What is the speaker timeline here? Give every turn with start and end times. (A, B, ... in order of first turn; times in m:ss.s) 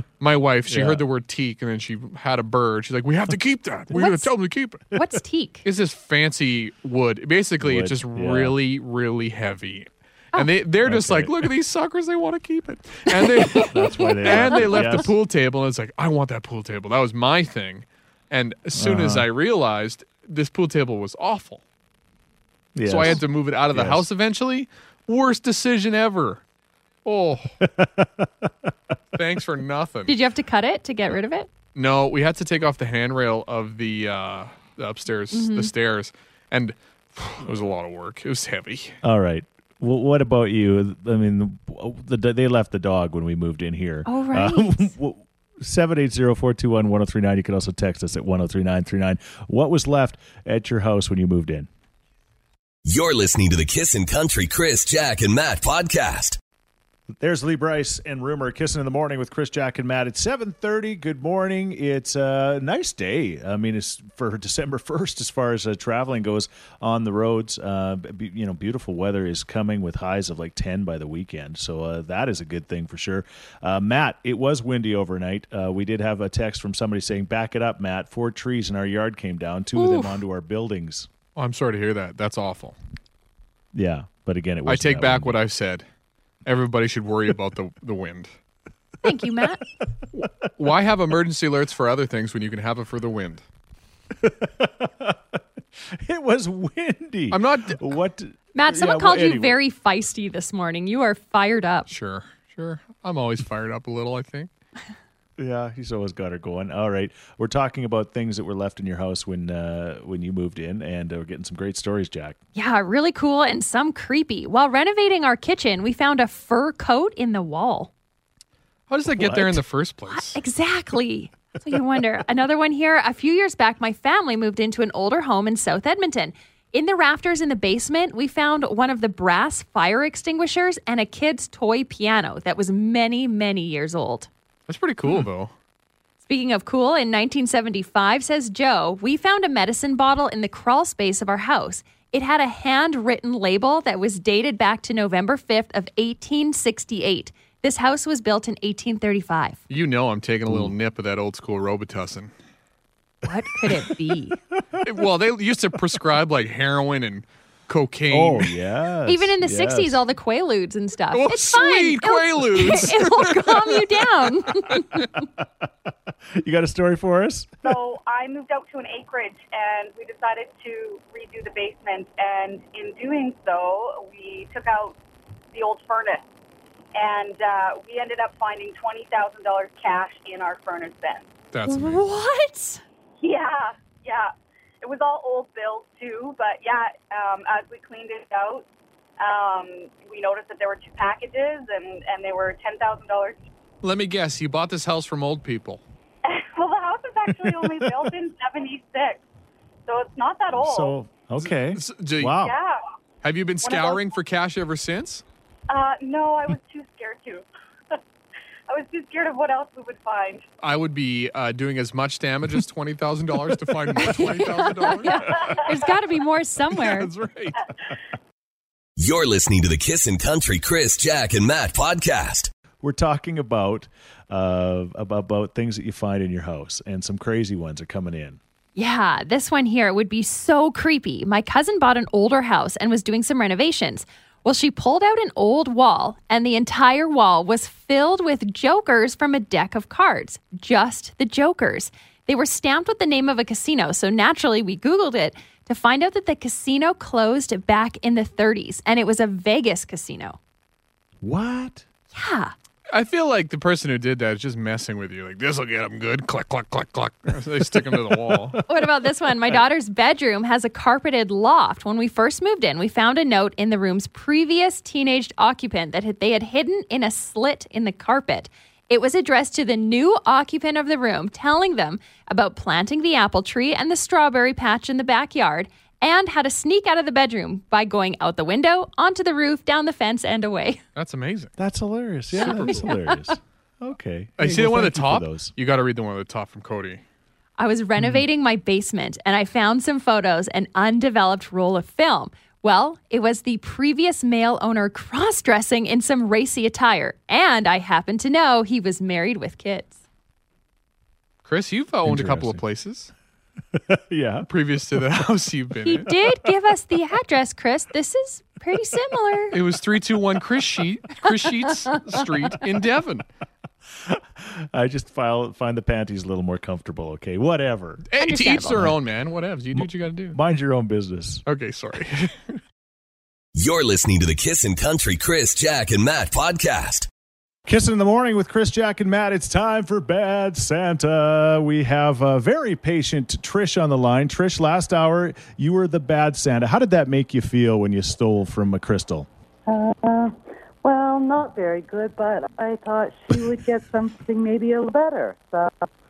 0:00.2-0:04.8 A
0:00.7-0:01.0 B
0:03.9-0:04.3 C
0:04.9-0:05.6 C
0:05.6-0:21.6 A
0:07.6-0:08.6 B
0:10.8-0:11.5 B
0:13.2-0:14.9 C
0:13.6-0:15.1 B
0:18.7-0:19.3 B
0:22.7-0:24.0 B
0:22.8-0:26.4 A
0:27.0-0:27.5 A
0:27.6-0:28.5 B
0:29.1-0:30.1 A
0:30.1-0:31.5 C
0:31.7-0:39.0 A
0:35.3-0:35.7 C
0:39.0-0:51.7 B
0:44.0-0:44.9 C
0:52.8-0:56.4 D
0:57.2-1:21.1 B
1:19.8-1:20.2 C
1:21.4-1:22.8 A
1:23.7-1:25.4 B
1:24.6-1:25.8 A
1:26.4-1:28.3 A
1:29.0-1:29.6 C
1:30.5-1:33.4 A
1:34.2-1:39.6 B
1:37.3-1:37.8 A
1:38.5-1:41.9 C
1:41.9-1:44.5 A
1:45.4-1:52.4 B
1:52.5-1:57.9 C
1:58.9-2:00.4 A
1:59.1-1:59.6 B
2:00.1-2:14.3 C
2:14.7-2:15.5 A
2:16.2-2:29.6 C
2:29.7-2:32.3 A
2:30.5-2:30.7 B
2:33.2-2:34.4 C
2:34.8-2:38.5 A
2:38.1-2:40.0 B
2:39.1-2:45.2 C
2:41.1-2:43.8 A
2:46.3-2:47.7 B
2:47.6-2:55.0 E
2:55.5-2:56.2 E
2:56.9-3:01.3 E
3:01.5-3:02.0 A
3:01.7-3:02.8 C
3:03.2-3:08.6 E
3:09.2-3:13.4 E
3:13.8-3:15.8 A
3:16.2-3:19.2 E
3:19.8-3:21.0 E
3:20.5-3:22.5 B
3:21.4-3:22.4 A
3:22.4-3:22.8 E
3:23.2-3:25.2 A
3:23.6-3:24.0 E
3:25.7-3:27.4 E
3:28.7-3:30.4 E
3:30.6-3:35.5 A
3:34.0-3:37.1 C
3:36.8-3:37.6 A
3:39.0-3:42.5 D
3:42.8-3:48.4 B
3:48.8-4:10.4 C
4:11.2-4:11.8 B
4:12.1-4:12.5 C
4:12.9-4:18.6 A
4:18.0-4:18.6 B
4:18.7-4:40.8 C
4:41.0-4:41.5 A
4:41.6-4:45.5 B
4:42.4-4:43.3 C
4:42.4-4:42.8 A
4:44.4-4:47.0 A
4:47.6-4:59.9 C
4:48.0-4:48.2 B
5:01.4-5:03.1 A
5:02.0-5:02.6 B
5:03.7-5:04.5 B
5:04.5-5:06.1 A
5:05.8-5:09.6 C
5:09.5-5:13.2 A
5:14.0-5:18.1 B
5:18.1-5:20.4 A
5:18.2-5:18.8 C
5:19.7-5:21.4 B
5:21.4-5:22.5 A
5:23.5-5:27.1 D
5:27.6-5:39.3 B
5:39.7-5:45.9 F